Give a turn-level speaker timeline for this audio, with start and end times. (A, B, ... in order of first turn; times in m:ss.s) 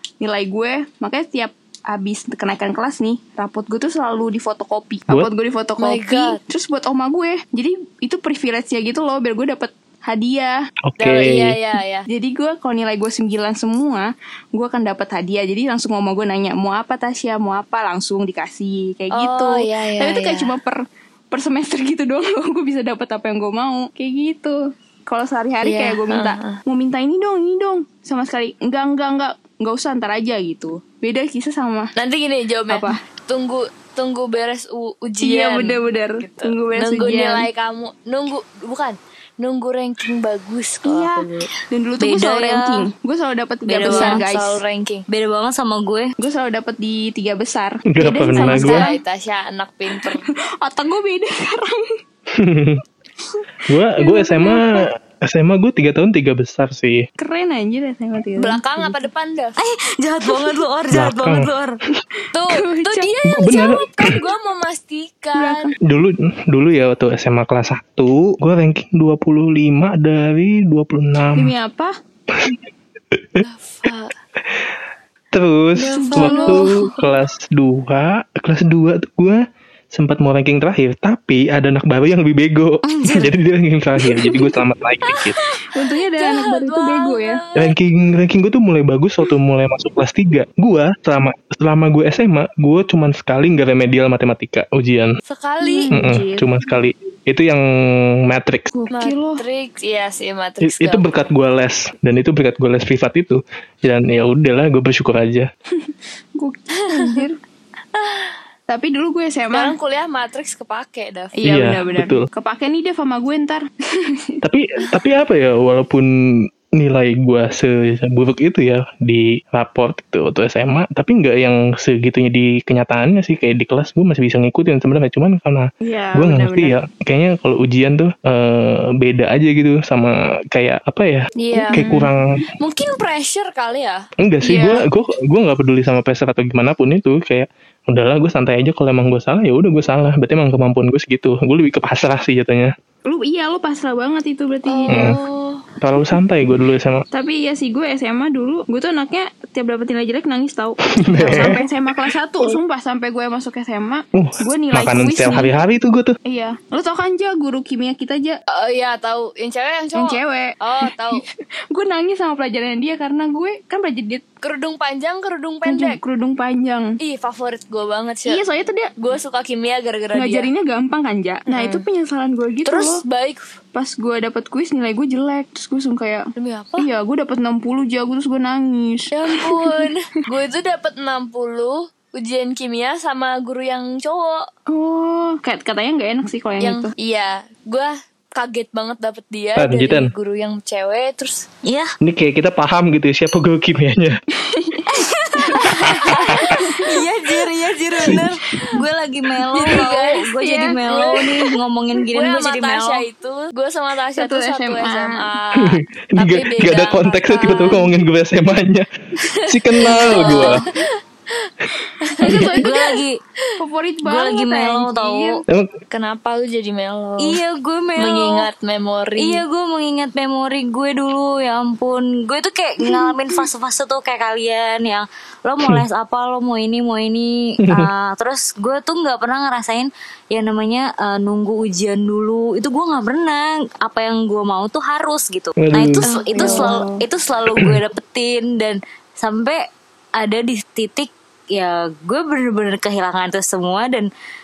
0:00.2-0:10.7 A
0:05.8-0:06.4 B
0:10.8-0:11.6 C
0:11.0-0:12.1 B
0:12.1-0:31.9 A
0:19.1-0:20.5 B
0:25.6-0:26.6 B
0:32.0-0:41.5 B
0:32.7-0:33.0 A
0:35.2-0:37.5 A
0:40.8-0:44.6 A
0:42.0-0:42.9 D
0:43.7-0:44.2 D
0:43.8-0:45.1 B
0:45.1-0:46.1 D
0:46.2-0:49.0 A
0:47.9-0:48.9 C
0:48.3-0:50.3 B
0:50.0-0:52.0 A
0:52.3-0:52.8 C
0:53.7-0:57.1 C
0:54.0-0:54.9 A
0:57.2-0:58.9 A
0:58.4-0:59.6 B
0:59.6-1:01.8 D
1:00.3-1:00.5 A
1:00.9-1:01.5 C
1:02.3-1:05.7 B
1:02.4-1:03.1 A
1:03.3-1:04.2 C
1:05.4-1:05.8 A
1:05.8-1:11.5 C
1:11.4-1:11.9 A
1:12.3-1:12.6 C
1:13.1-1:13.4 C
1:13.4-1:14.1 B
1:14.4-1:14.8 C
1:15.3-1:19.4 C
1:15.8-1:16.7 A
1:15.8-1:16.9 B
1:19.9-1:25.4 C
1:22.8-1:23.3 D
1:25.1-1:27.7 B
1:25.7-1:27.4 A
1:27.6-1:35.2 C
1:35.3-1:36.0 B
1:35.6-1:36.5 A
1:35.9-1:38.7 C
1:38.7-1:39.4 A
1:38.9-1:41.1 B
1:40.6-1:45.5 C
1:45.8-1:47.4 A
1:46.9-1:47.2 B
1:48.0-1:48.4 B
1:48.7-1:49.8 A
1:49.5-1:51.8 B
1:51.4-1:54.4 A
1:51.4-1:52.3 C
1:54.4-2:12.4 C
2:05.8-2:06.8 A
2:11.4-2:11.9 B
2:11.7-2:12.4 A
2:12.6-2:14.0 B
2:14.2-2:22.7 C
2:14.4-2:14.8 A
2:23.1-2:25.2 A
2:24.7-2:25.7 B
2:24.9-2:25.2 C
2:25.8-2:27.0 C
2:27.1-2:35.5 A
2:30.9-2:31.6 C
2:31.2-2:31.6 B
2:34.1-2:36.2 C
2:34.9-2:35.5 B
2:36.3-2:38.4 A
2:38.5-2:41.2 B
2:39.9-2:44.2 A
2:44.4-2:46.0 B
2:45.6-2:47.0 A
2:47.0-2:48.4 B
2:48.3-2:48.9 A
2:49.0-2:50.5 B
2:50.1-2:53.0 A
2:51.5-2:51.9 B
2:52.6-2:53.6 B
2:53.7-2:59.9 A
2:56.4-2:56.9 B
2:59.1-3:04.5 B
3:04.7-3:06.9 A
3:06.6-3:11.5 B
3:09.6-3:10.1 C
3:11.6-3:11.9 D
3:12.0-3:14.2 C
3:14.4-3:14.8 A
3:14.9-3:23.0 D
3:15.4-3:16.9 B
3:15.8-3:16.6 C
3:16.6-3:17.0 A
3:19.5-3:20.8 A
3:19.6-3:21.3 B
3:22.1-3:27.9 B
3:24.2-3:25.3 A
3:25.6-3:28.9 C
3:29.2-3:33.5 B
3:29.5-3:30.6 C
3:29.8-3:30.6 D
3:32.2-3:32.7 A
3:32.5-3:33.2 D
3:33.6-3:35.4 A
3:34.0-3:35.4 D
3:35.5-3:35.7 C
3:35.9-3:37.4 B
3:37.2-3:38.5 D
3:38.0-3:39.4 B
3:39.2-3:59.6 D
3:47.6-3:47.9 C
3:55.6-3:56.0 C
3:56.0-3:56.8 B
3:56.3-3:57.0 A
4:00.2-4:04.1 D